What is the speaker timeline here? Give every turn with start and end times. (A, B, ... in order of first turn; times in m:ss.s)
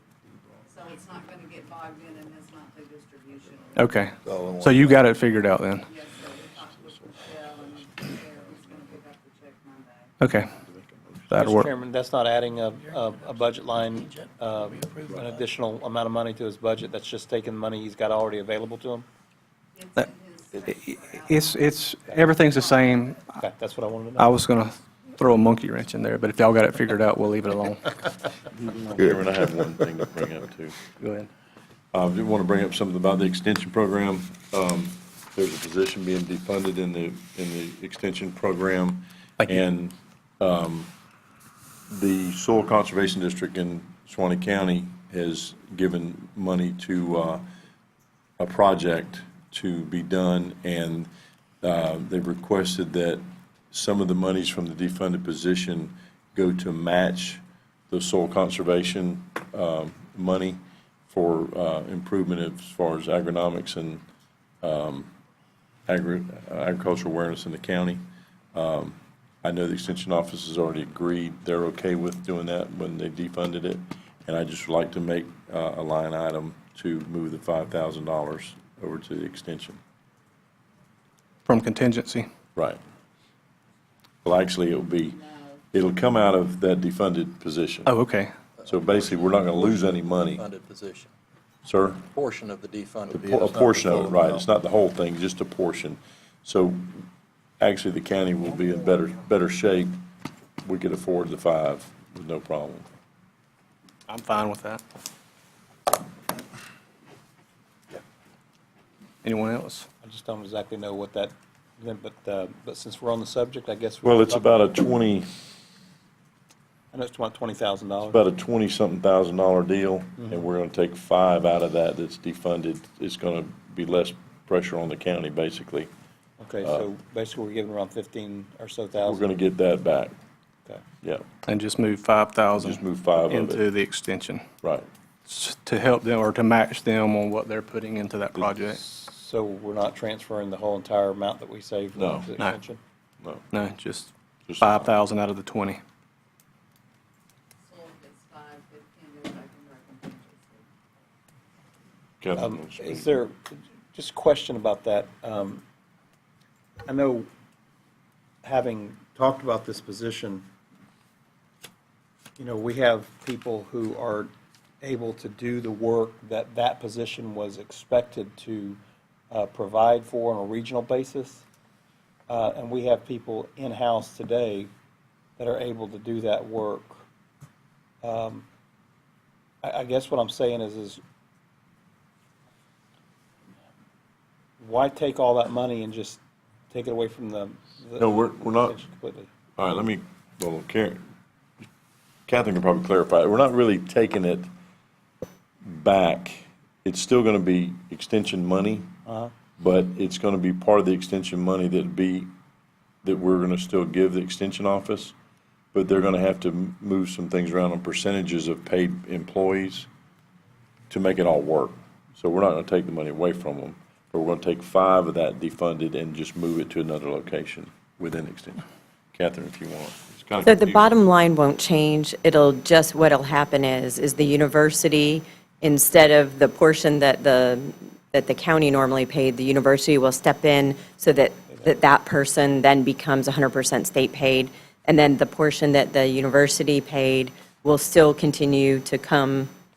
0:00.7-0:03.9 A
0:03.8-0:05.9 B
0:04.2-0:05.1 C
0:05.9-0:10.1 A
0:10.2-0:10.6 B
0:11.3-0:11.7 B
0:11.4-0:19.1 D
0:19.8-0:21.7 A
0:20.6-0:23.4 B
0:22.4-0:22.9 A
0:23.4-0:24.3 D
0:24.2-0:27.9 B
0:28.9-0:30.8 E
0:31.0-0:31.3 B
0:31.9-0:40.9 E
0:41.9-0:47.4 E
0:48.4-0:51.1 E
0:51.6-1:04.0 E
1:04.6-1:05.1 E
1:05.9-1:08.0 E
1:08.5-1:19.8 E
1:21.5-1:22.3 B
1:24.2-1:27.9 E
1:27.9-1:28.3 B
1:28.6-1:29.7 C
1:28.6-1:30.4 E
1:30.4-1:31.1 C
1:31.6-1:32.1 E
1:32.1-1:34.4 C
1:33.1-1:37.0 E
1:37.6-1:39.9 E
1:40.6-1:42.9 E
1:44.1-1:44.8 B
1:49.2-1:49.9 B
1:50.0-1:54.6 D
1:54.0-1:55.3 E
1:56.9-1:58.2 D
1:58.1-2:05.9 E
2:06.4-2:09.2 D
2:09.0-2:10.1 E
2:11.5-2:14.4 B
2:12.6-2:13.6 E
2:14.6-2:14.9 E
2:15.3-2:18.8 B
2:18.7-2:22.8 D
2:22.0-2:22.3 E
2:23.5-2:25.8 B
2:24.5-2:24.9 E
2:27.7-2:30.6 A
2:32.2-2:33.1 E
2:32.4-2:35.6 D
2:36.9-2:37.3 D
2:38.4-2:40.4 D
2:42.4-2:48.8 D
2:49.3-2:51.4 D
2:52.3-2:54.7 D
2:55.4-2:57.0 D
2:58.0-2:58.4 D
2:59.6-3:01.0 D
3:04.6-3:06.2 D
3:06.7-3:09.3 D
3:08.0-3:08.8 E
3:09.6-3:11.0 E
3:12.3-3:14.5 E
3:15.6-3:18.9 E
3:19.1-3:19.3 D
3:19.6-3:22.3 E
3:23.0-3:25.1 E
3:25.7-3:29.9 E
3:30.9-3:38.6 E
3:39.2-3:40.9 E
3:40.4-3:59.5 F